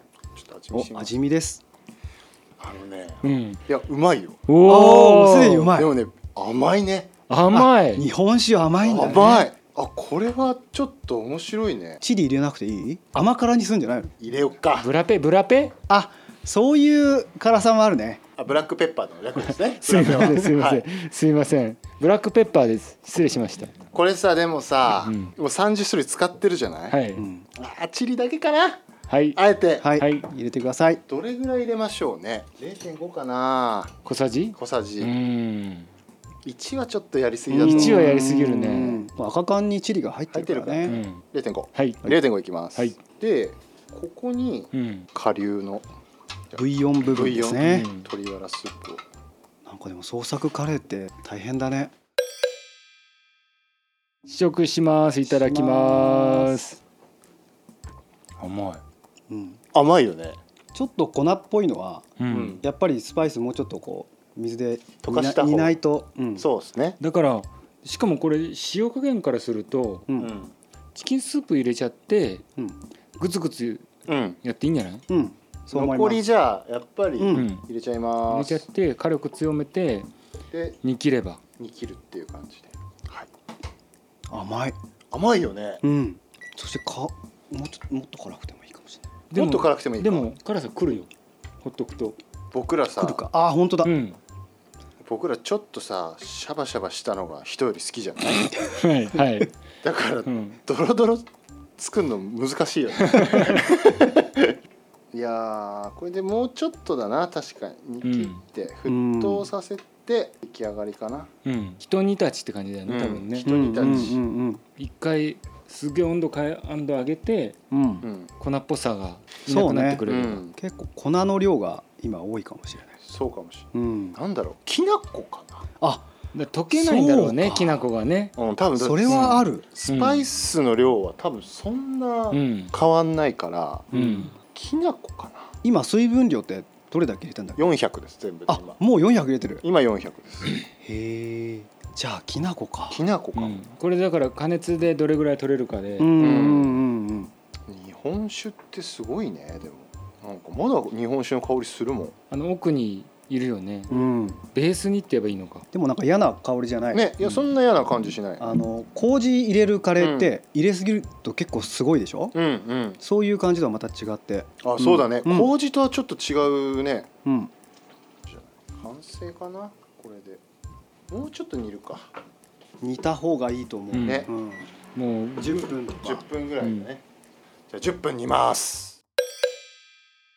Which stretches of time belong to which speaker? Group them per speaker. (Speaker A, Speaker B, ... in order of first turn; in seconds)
Speaker A: 0.3-1.1, 2.6-4.4, 5.7-7.1, 8.8-12.0, 14.2-14.9, 18.4-20.9, 23.9-26.9, 27.6-28.8, 29.4-29.9, 31.1-33.9, 34.6-35.1, 36.4-38.2, 40.3-45.8, 46.5-49.0, 59.7-60.4, 62.3-62.6, 65.0-65.8, 66.4-67.0, 70.2-70.5, 74.1-74.4, 75.7-78.6, 80.5-80.8, 81.6-83.3, 85.1-85.8, 89.3-90.2, 92.5-93.2, 95.0-98.7, 99.8-101.2, 101.8-104.5, 105.1-111.3, 112.9-114.2, 118.0-118.3, 120.0-120.5, 123.0-125.6, 128.4-135.5, 137.6-138.8, 139.6-140.6, 142.9-143.6, 146.2-146.8, 147.7-152.1, 156.9-158.4, 160.0-160.3, 162.3-163.0, 164.6-167.1, 168.2-170.4, 171.1-172.1, 174.0-174.3, 176.0-177.0, 177.7-179.0
Speaker B: 0.7-1.6, 4.6-5.9, 7.5-9.4, 12.0-14.1, 15.9-18.2, 20.1-20.4, 27.2-27.4, 29.8-31.0, 37.5-41.0, 46.5-47.9, 49.6-51.9, 55.3-56.6, 59.3-59.6, 60.7-66.5, 75.1-76.2, 77.2-77.5, 84.3-84.8, 85.8-89.1, 93.0-93.9, 108.8-109.5, 113.4-114.6, 117.7-118.0, 119.5-123.0, 123.7-124.2, 125.8-126.1, 126.7-127.8, 128.8-129.6, 133.9-134.3, 135.6-137.6, 138.5-139.6, 140.8-143.0, 146.0-147.3, 153.9-154.4, 155.7-157.4, 158.4-162.3, 163.0-165.5, 167.2-167.5, 172.8-174.7, 175.4-176.3
Speaker C: 3.2-3.6, 4.5-5.7, 7.3-8.1, 9.0-9.4, 14.8-15.7, 19.8-23.7, 25.0-25.3, 26.9-27.2, 29.1-29.4, 30.0-30.2, 34.0-35.9, 37.6-39.0, 40.9-42.0, 44.7-45.1, 47.7-48.1, 54.3-56.8, 58.4-58.8, 62.2-62.6, 67.0-70.0, 70.9-72.4, 73.2-73.9, 74.4-75.0, 77.3-77.6, 78.3-80.1, 80.8-81.4, 89.3-91.1, 91.6-92.2, 93.8-94.2, 98.7-99.5, 100.2-100.6, 103.0-103.6, 108.0-108.4, 111.4-114.1, 114.8-117.6, 118.4-120.5, 126.3-128.3, 129.1-130.2, 132.3-132.7, 133.9-134.3, 143.3-146.2, 152.3-153.9, 154.5-155.7, 173.9-174.3, 174.9-175.6, 176.6-176.8